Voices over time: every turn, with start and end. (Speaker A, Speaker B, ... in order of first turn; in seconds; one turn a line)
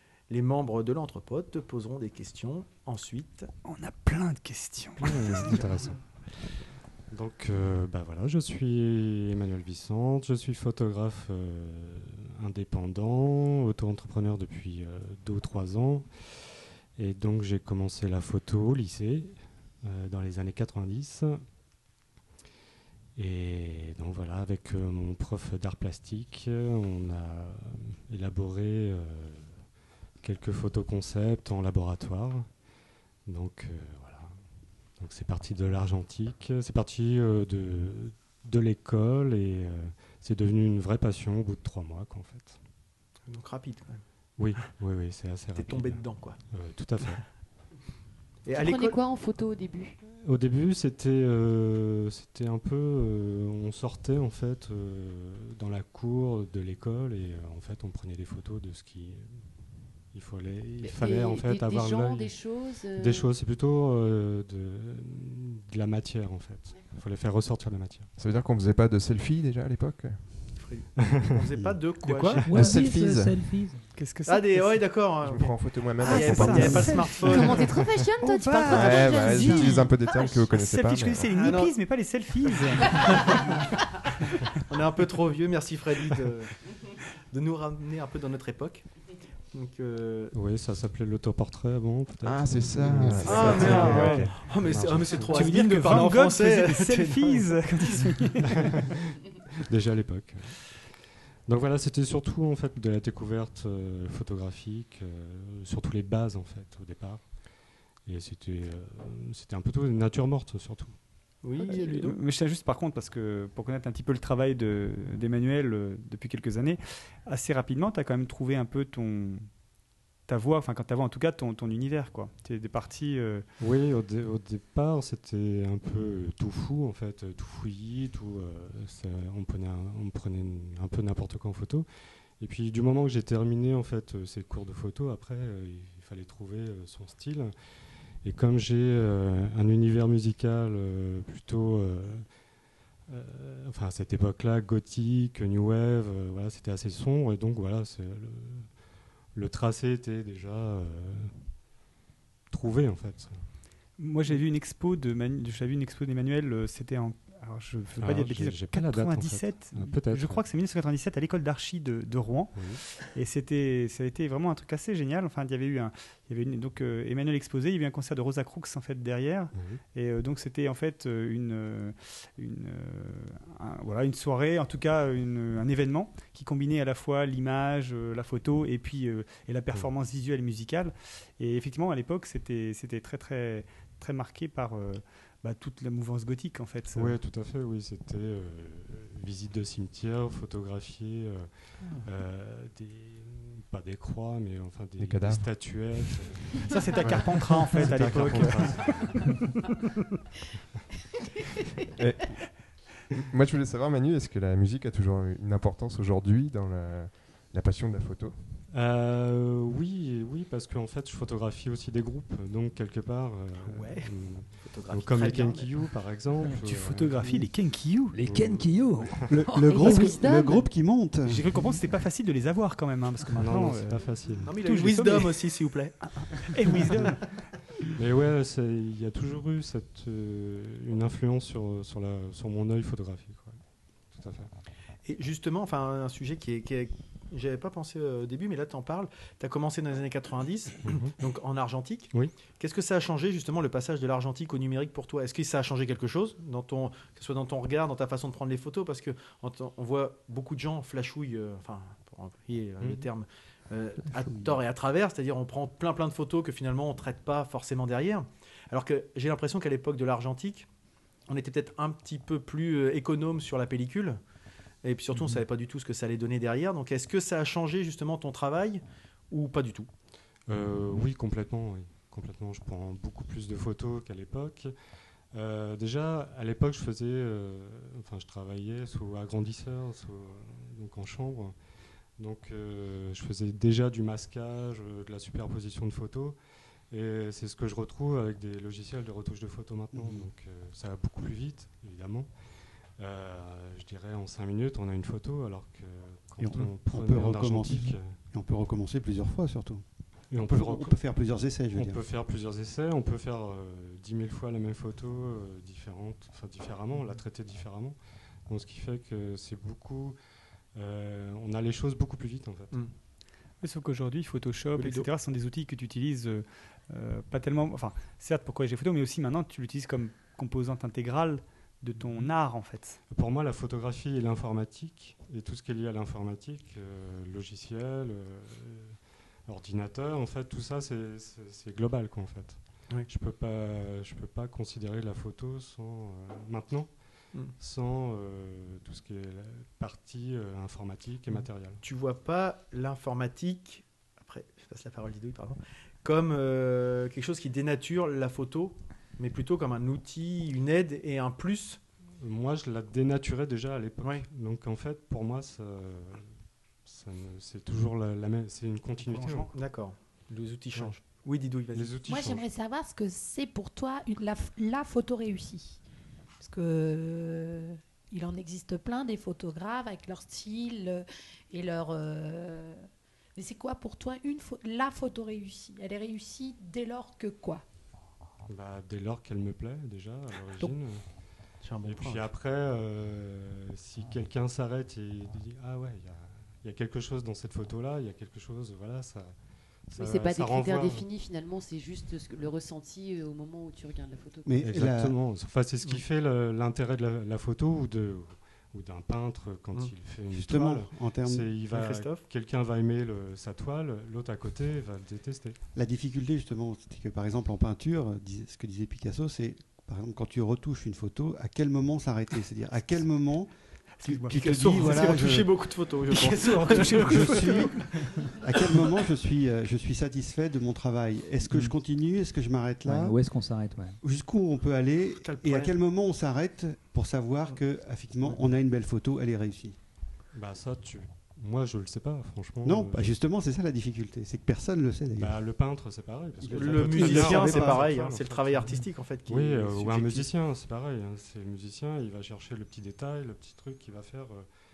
Speaker A: 0.3-3.5
Speaker B: 3.6-5.6
Speaker C: 5.0-6.0
Speaker C: 7.1-21.4
Speaker C: 23.1-29.6
Speaker C: 30.2-32.5
Speaker C: 33.2-34.4
Speaker C: 35.0-42.6
Speaker A: 43.2-44.0
Speaker C: 44.4-47.2
Speaker A: 45.5-46.4
Speaker A: 48.4-49.0
Speaker D: 48.5-50.0
Speaker C: 50.2-59.4
Speaker C: 60.1-68.1
Speaker D: 60.8-63.3
Speaker E: 68.2-70.5
Speaker A: 70.5-72.5
Speaker C: 71.0-71.3
Speaker B: 72.0-72.7
Speaker F: 72.4-73.8
Speaker E: 72.5-73.5
Speaker B: 73.9-74.9
Speaker A: 74.3-77.8
Speaker E: 75.2-77.4
Speaker G: 76.0-80.4
Speaker B: 76.0-83.7
Speaker E: 78.6-81.3
Speaker A: 81.3-81.7
Speaker A: 82.9-83.5
Speaker A: 84.5-86.6
Speaker A: 87.3-88.9
Speaker A: 89.5-90.3
Speaker C: 90.3-95.5
Speaker E: 92.2-94.3
Speaker A: 93.2-97.5
Speaker B: 93.5-94.3
Speaker B: 95.2-98.8
Speaker C: 98.5-99.0
Speaker C: 99.7-100.6
Speaker C: 101.5-107.4
Speaker C: 108.0-111.0
Speaker A: 111.4-112.2
Speaker B: 111.6-119.5
Speaker B: 120.3-123.4
Speaker C: 123.6-131.9
Speaker C: 132.4-137.5
Speaker C: 138.2-142.3
Speaker C: 143.1-148.8
Speaker C: 149.3-151.4
Speaker C: 152.5-153.4
Speaker B: 154.0-187.2
Speaker C: 158.0-160.4
Speaker C: 162.5-162.8
Speaker C: 169.5-169.8
Speaker C: 186.9-191.5
Speaker C: 192.0-199.2
Speaker E: 195.0-195.9
Speaker B: 196.7-199.7
Speaker E: 201.9-208.3
Speaker C: 208.7-217.3
Speaker A: 213.7-215.7
Speaker B: 216.5-218.2
Speaker F: 218.1-220.1
Speaker C: 218.2-219.3
Speaker H: 219.3-221.4
Speaker D: 219.7-220.7
Speaker B: 221.2-224.0
Speaker C: 223.3-224.6
Speaker A: 224.4-226.0
Speaker B: 224.6-225.5
Speaker B: 226.1-227.4
Speaker C: 227.9-233.6
Speaker C: 234.1-234.5
Speaker A: 235.1-260.7
Speaker C: 240.8-241.1
Speaker C: 252.8-253.1
Speaker F: 254.1-254.6
Speaker A: 261.3-264.2
Speaker A: 264.8-269.9
Speaker C: 265.1-265.4
Speaker C: 270.5-274.7
Speaker C: 275.3-281.5
Speaker C: 282.2-286.4
Speaker C: 286.9-292.3
Speaker H: 289.9-290.3
Speaker C: 293.0-298.2
Speaker H: 296.4-299.8
Speaker C: 300.3-301.0
Speaker H: 300.4-302.0
Speaker C: 301.7-310.2
Speaker C: 310.7-312.8
Speaker B: 313.6-323.0
Speaker A: 314.8-315.1
Speaker C: 323.1-337.0
Speaker C: 337.6-341.8
Speaker A: 341.3-351.8
Speaker C: 352.2-356.3
Speaker C: 356.8-359.5
Speaker B: 359.0-359.5
Speaker A: 359.5-361.9
Speaker C: 361.7-362.4
Speaker G: 362.1-365.8
Speaker G: 366.4-377.6
Speaker C: 378.5-381.0
Speaker A: 381.6-382.3
Speaker C: 381.8-389.3
Speaker C: 389.9-391.1
Speaker D: 389.9-394.6
Speaker H: 394.4-395.1
Speaker C: 394.6-405.6
Speaker H: 400.3-401.4
Speaker A: 401.7-402.2
Speaker H: 405.7-413.5
Speaker B: 414.0-415.1
Speaker H: 414.0-415.5
Speaker A: 414.3-417.8
Speaker B: 416.1-418.2
Speaker H: 416.9-417.7
Speaker H: 418.4-423.2
Speaker F: 422.8-424.0
Speaker H: 424.0-429.8
Speaker A: 425.2-425.7
Speaker C: 430.3-433.1
Speaker H: 432.6-435.4
Speaker C: 435.1-444.5
Speaker H: 436.4-437.9
Speaker A: 436.5-440.3